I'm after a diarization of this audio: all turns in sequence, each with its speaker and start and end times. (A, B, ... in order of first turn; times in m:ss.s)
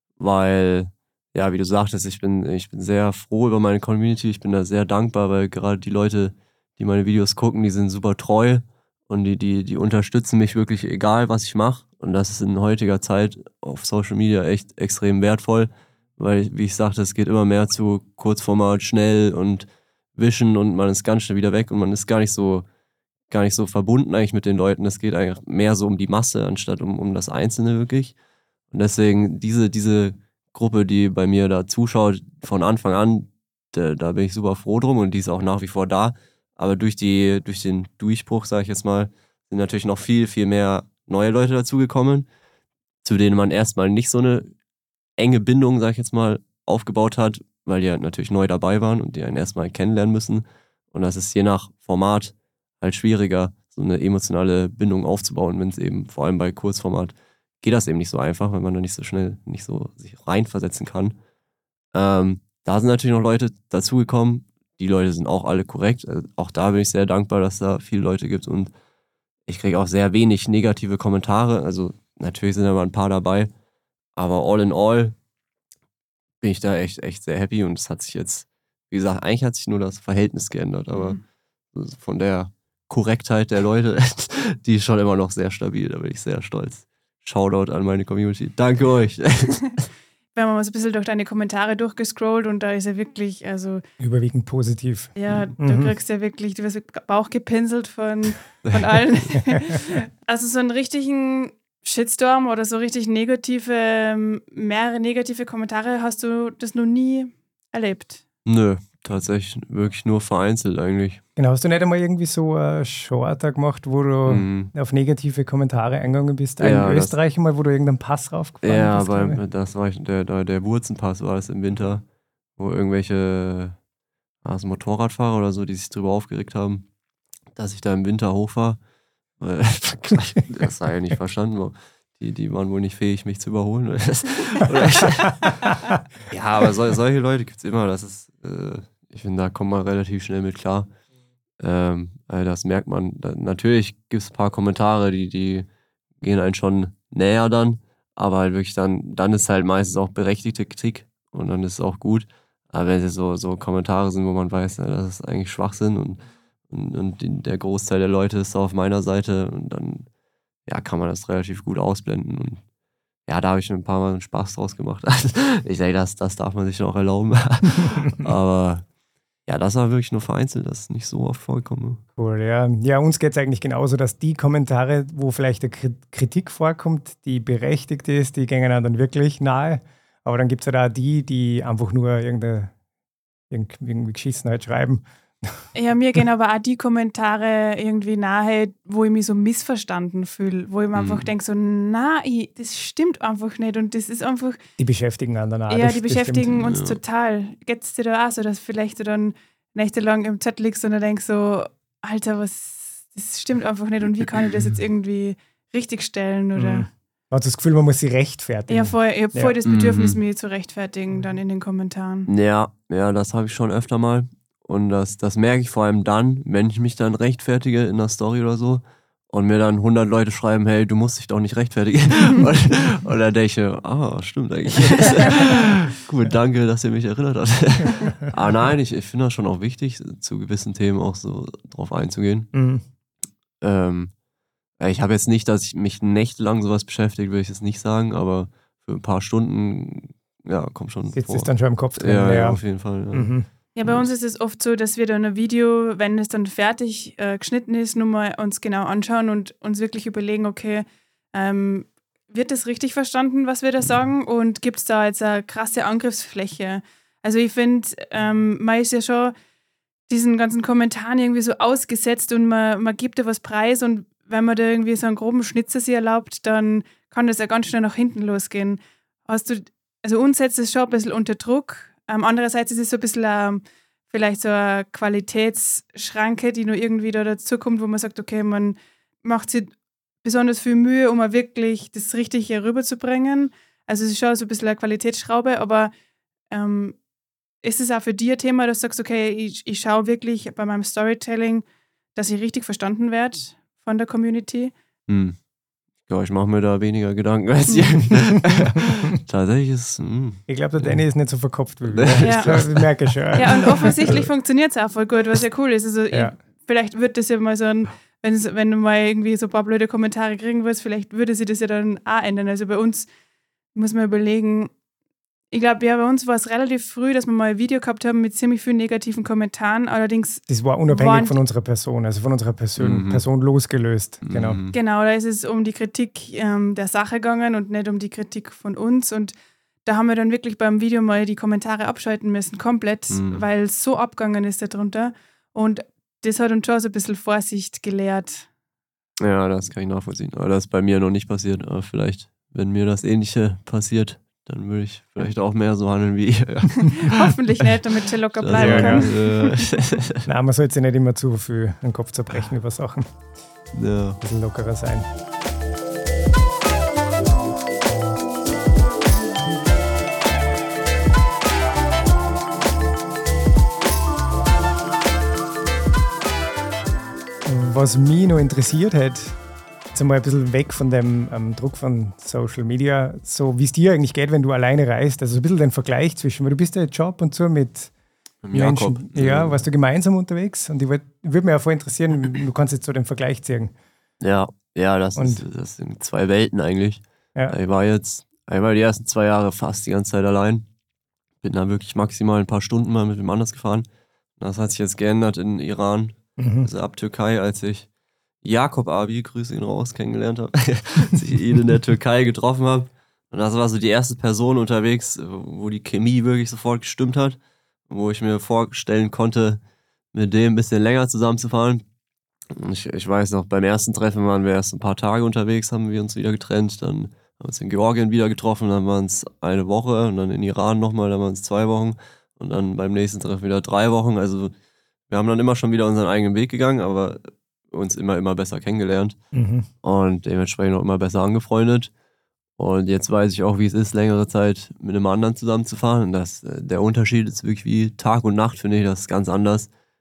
0:00.2-0:22.6 A
0:23.3-0:28.2 A
0:28.7-0:42.3 A
0:43.0-0:44.5 A
0:45.2-1:01.2 A
1:01.9-1:08.7 A
1:09.5-1:13.5 A
1:14.2-1:15.2 A
1:16.4-1:21.2 A
1:20.9-1:21.2 B
1:21.8-1:29.6 A
1:30.3-1:33.8 B
1:34.0-1:35.9 C
1:35.2-1:48.2 B
1:38.6-1:39.0 A
1:48.4-1:51.2 A
1:51.4-1:59.4 C
1:54.3-1:54.7 A
1:56.6-1:57.2 A
1:58.6-2:02.0 A
2:02.6-2:03.8 A
2:04.4-2:06.9 A
2:07.6-2:08.8 A
2:09.4-2:15.6 A
2:16.3-2:20.9 A
2:21.6-2:25.7 A
2:26.2-2:40.1 A
2:40.7-2:42.6 A
2:43.3-2:48.8 A
2:47.8-2:48.1 C
2:49.5-2:52.0 A
2:52.2-3:02.7 C
3:03.5-3:05.6 C
3:05.8-3:14.6 B
3:11.0-3:11.3 A
3:14.8-3:16.7 C
3:15.7-3:26.9 B
3:16.6-3:17.0 A
3:26.6-3:29.6 C
3:28.7-3:32.3 B
3:29.6-3:30.2 A
3:32.3-3:52.5 A
3:52.5-3:52.8 C
3:53.6-3:54.1 A
3:54.8-4:03.3 A
4:01.1-4:02.6 C
4:03.1-4:03.5 C
4:03.8-4:19.3 B
4:03.8-4:04.1 A
4:20.1-4:45.9 B
4:46.5-4:47.0 B
4:47.6-4:54.7 B
4:55.1-4:55.4 A
4:56.1-5:01.0 A
4:57.7-4:58.0 B
5:00.5-5:04.3 C
5:01.8-5:03.6 A
5:02.2-5:02.7 B
5:03.4-5:13.1 B
5:13.7-5:14.7 B
5:15.5-5:21.4 B
5:20.5-5:24.6 C
5:22.8-5:23.2 A
5:24.2-5:24.8 A
5:24.7-5:29.3 B
5:29.8-5:38.5 B
5:33.1-5:33.4 A
5:39.2-5:47.2 A
5:46.9-5:49.6 B
5:48.4-5:50.3 A
5:48.5-5:49.1 C
5:50.3-5:53.1 C
5:53.7-5:54.2 A
5:54.2-5:55.1 C
6:07.5-6:09.4 C
6:09.9-6:17.9 C
6:18.4-6:19.6 A
6:18.5-6:23.7 C
6:24.2-6:30.7 A
6:25.2-6:25.4 C
6:31.4-6:33.9 A
6:34.4-6:37.9 A
6:36.4-6:36.7 C
6:38.4-6:49.6 A
6:50.1-6:51.8 A
6:52.5-7:04.5 A
7:05.1-7:09.2 A
7:09.3-7:09.7 C
7:09.8-7:11.9 A
7:12.6-7:19.7 A